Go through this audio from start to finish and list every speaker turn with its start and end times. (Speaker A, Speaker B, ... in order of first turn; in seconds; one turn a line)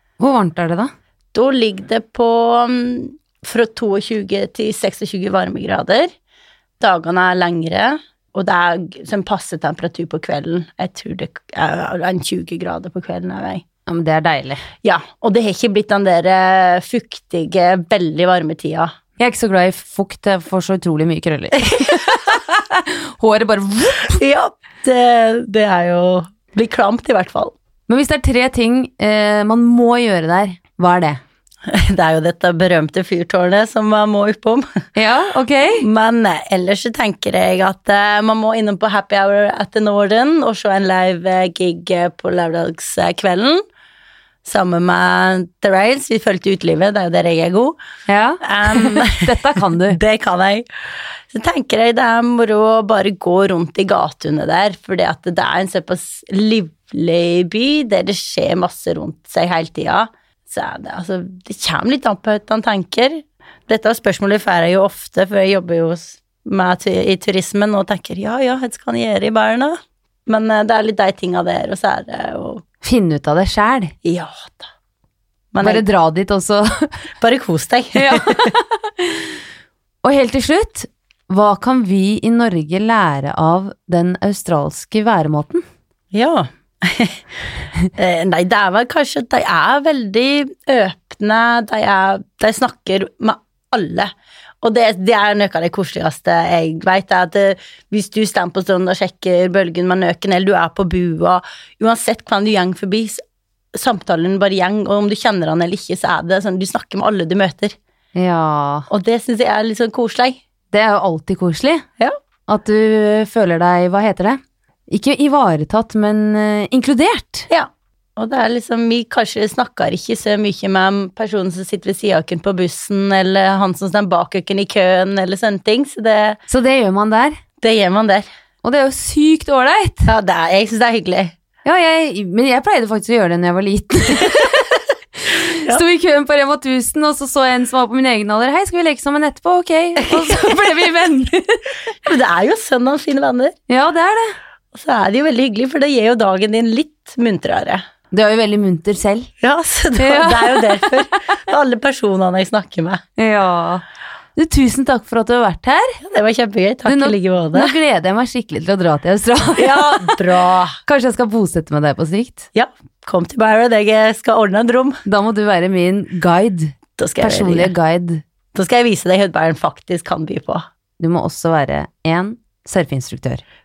Speaker A: 0.2-0.9
Speaker B: 1.3-6.1
Speaker B: 6.8-13.6
Speaker A: 13.8-14.6
Speaker B: 14.8-18.9
Speaker A: 19.2-24.2
Speaker B: 21.6-22.3
Speaker B: 24.1-27.5
Speaker A: 27.9-31.2
Speaker B: 31.7-34.8
Speaker A: 35.0-35.8
Speaker B: 35.8-43.6
Speaker B: 44.4-47.8
Speaker A: 48.1-50.0
Speaker B: 48.4-50.6
Speaker B: 51.3-72.6
Speaker A: 72.8-73.9
Speaker B: 74.0-74.7
Speaker B: 75.5-75.8
Speaker A: 75.6-76.9
Speaker B: 77.2-78.5
Speaker A: 77.9-79.3
Speaker A: 80.0-85.6
Speaker B: 86.1-87.2
Speaker B: 88.0-103.2
Speaker B: 103.7-107.7
Speaker A: 108.1-108.9
Speaker B: 108.9-110.4
Speaker A: 110.7-111.8
Speaker A: 112.5-117.5
Speaker B: 117.5-126.4
Speaker A: 126.5-127.4
Speaker B: 127.6-128.2
Speaker A: 128.6-130.1
Speaker B: 130.1-131.3
Speaker A: 131.6-134.6
Speaker B: 134.2-134.6
Speaker A: 135.2-141.7
Speaker B: 140.0-140.6
Speaker B: 142.0-143.5
Speaker A: 143.7-144.3
Speaker B: 144.7-147.8
Speaker A: 148.1-149.3
Speaker B: 149.4-153.0
Speaker A: 150.0-150.9
Speaker A: 153.2-153.8
Speaker A: 154.3-156.0
Speaker B: 156.0-157.7
Speaker A: 156.8-160.2
Speaker B: 159.6-160.8
Speaker A: 160.8-162.5
Speaker B: 162.5-165.0
Speaker A: 165.0-168.2
Speaker B: 167.0-167.7
Speaker B: 168.5-170.6
Speaker A: 171.0-173.4